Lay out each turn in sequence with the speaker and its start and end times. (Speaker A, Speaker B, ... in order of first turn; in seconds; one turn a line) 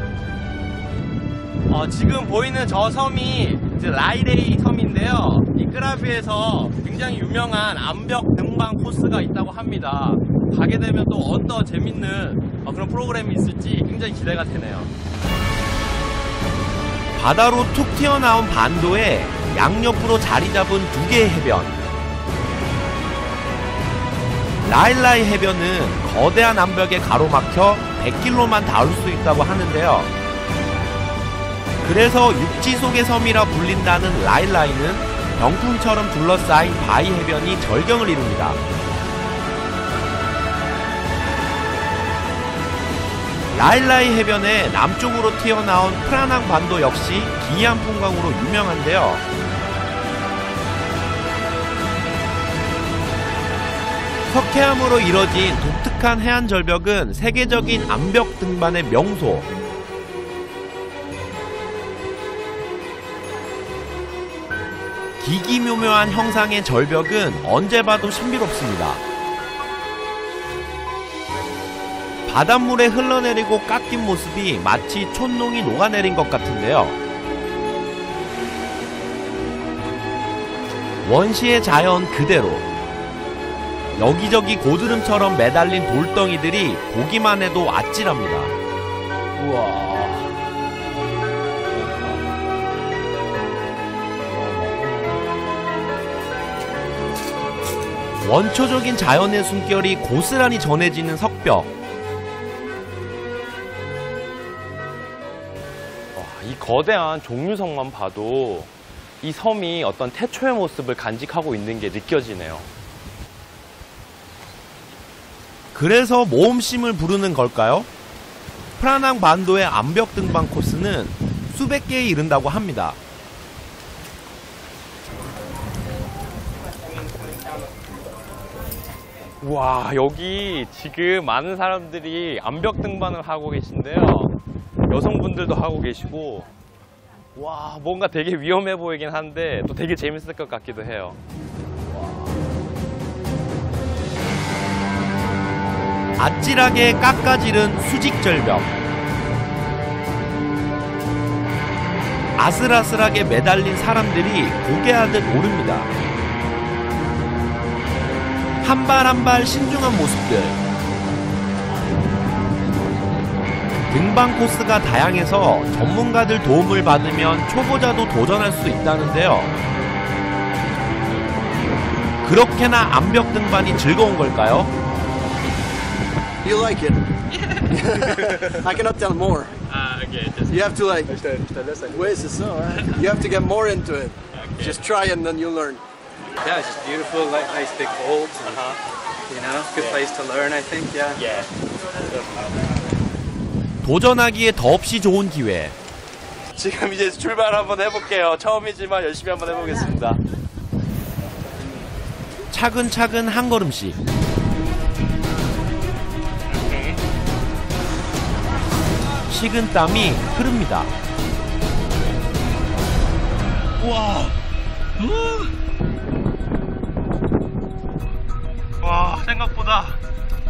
Speaker A: 1.7-14.9
Speaker B: 17.1-21.8
Speaker B: 24.6-30.1
Speaker B: 31.8-38.6
Speaker B: 43.5-49.2
Speaker B: 54.3-59.5
Speaker B: 65.2-69.0
Speaker B: 72.3-77.0
Speaker B: 81.0-82.7
Speaker B: 84.0-88.5
Speaker A: 89.3-90.4
Speaker A: 91.7-92.2
Speaker A: 94.3-95.2
Speaker B: 98.2-101.7
Speaker A: 106.1-112.7
Speaker B: 115.7-117.9
Speaker B: 118.8-123.0
Speaker A: 129.4-134.3
Speaker A: 134.9-136.5
Speaker A: 137.3-141.2
Speaker B: 146.2-148.7
Speaker B: 152.4-155.9
Speaker B: 158.6-160.6
Speaker B: 163.9-169.5
Speaker B: 172.2-174.7
Speaker C: 176.4-177.1
Speaker C: 177.7-179.5
Speaker A: 179.7-180.5
Speaker C: 180.5-185.8
Speaker D: 186.4-188.8
Speaker D: 189.3-191.2
Speaker B: 193.8-195.7
Speaker A: 196.6-200.2
Speaker B: 202.5-204.0
Speaker B: 209.3-210.9
Speaker A: 213.8-214.3
Speaker A: 215.0-215.5
Speaker A: 218.8-220.0